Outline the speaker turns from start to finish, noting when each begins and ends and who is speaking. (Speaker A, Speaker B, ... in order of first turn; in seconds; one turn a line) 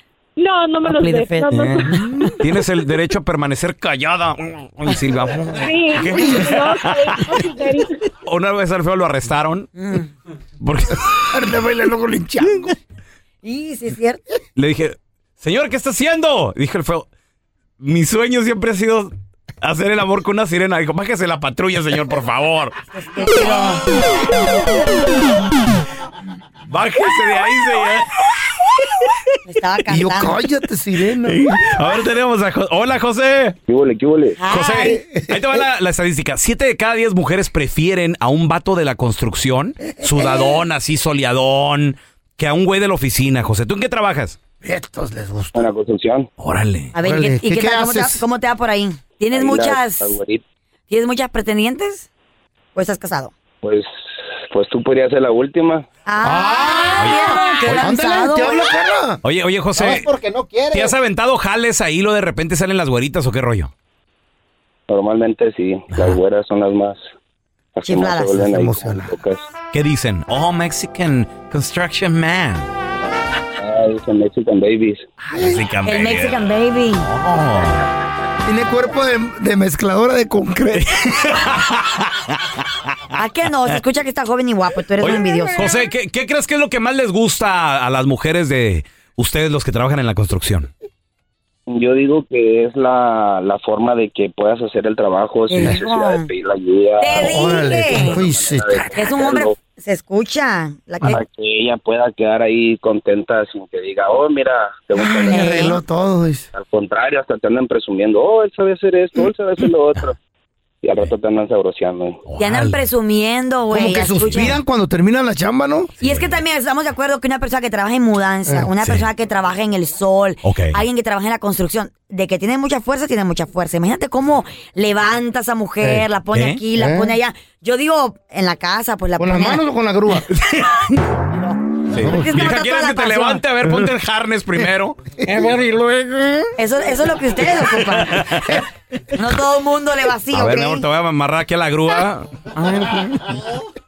Speaker A: 0.4-1.9
Speaker B: 0.9-2.3
Speaker C: 1.5-7.4
Speaker D: 5.3-6.5
Speaker A: 5.5-8.0
Speaker C: 8.2-9.7
Speaker B: 9.8-10.1
Speaker C: 10.6-11.2
Speaker D: 11.1-12.8
Speaker B: 13.4-14.2
Speaker C: 14.6-17.1
Speaker C: 17.8-22.8
Speaker B: 22.9-23.9
Speaker C: 26.7-28.2
Speaker B: 29.5-30.4
Speaker D: 29.9-31.4
Speaker C: 31.2-33.6
Speaker E: 33.7-34.4
Speaker B: 34.4-35.0
Speaker C: 34.5-44.4
Speaker D: 34.8-35.6
Speaker D: 39.9-40.6
Speaker D: 44.6-45.7
Speaker E: 45.5-46.3
Speaker C: 46.4-46.9
Speaker B: 47.0-50.1
Speaker D: 47.0-48.2
Speaker E: 49.3-50.4
Speaker B: 50.9-52.1
Speaker B: 52.8-53.3
Speaker E: 53.6-53.9
Speaker E: 54.5-55.9
Speaker B: 56.1-58.7
Speaker D: 56.2-59.2
Speaker C: 57.0-57.9
Speaker C: 59.2-60.1
Speaker D: 59.8-60.9
Speaker C: 60.7-63.7
Speaker E: 64.9-67.0
Speaker C: 65.9-66.2
Speaker E: 67.8-69.4
Speaker B: 67.8-68.4
Speaker D: 68.4-69.1
Speaker C: 69.7-72.7
Speaker E: 73.6-75.0
Speaker C: 75.3-76.4
Speaker D: 75.3-75.6
Speaker B: 75.8-77.1
Speaker C: 77.0-77.8
Speaker D: 78.4-81.3
Speaker C: 80.8-82.6
Speaker B: 83.2-85.7
Speaker C: 85.0-90.7
Speaker E: 91.7-99.5
Speaker B: 95.5-96.3
Speaker B: 97.0-98.2
Speaker D: 97.1-98.9
Speaker B: 99.0-101.2
Speaker E: 101.0-105.7
Speaker D: 105.0-106.5
Speaker B: 105.2-105.8
Speaker E: 106.5-110.2
Speaker E: 110.8-112.2
Speaker C: 112.3-112.8
Speaker B: 112.4-114.6
Speaker D: 113.7-115.9
Speaker B: 116.0-129.6
Speaker C: 116.0-116.3
Speaker D: 118.5-118.7
Speaker C: 120.4-120.8
Speaker D: 125.8-126.1
Speaker C: 126.3-126.6
Speaker D: 126.7-127.2
Speaker D: 129.2-130.3
Speaker C: 130.3-130.8
Speaker C: 131.9-135.0
Speaker D: 132.0-132.3
Speaker B: 132.0-133.4
Speaker D: 135.2-135.6
Speaker B: 136.6-138.6
Speaker C: 137.7-138.6
Speaker B: 139.1-140.8
Speaker C: 140.3-143.4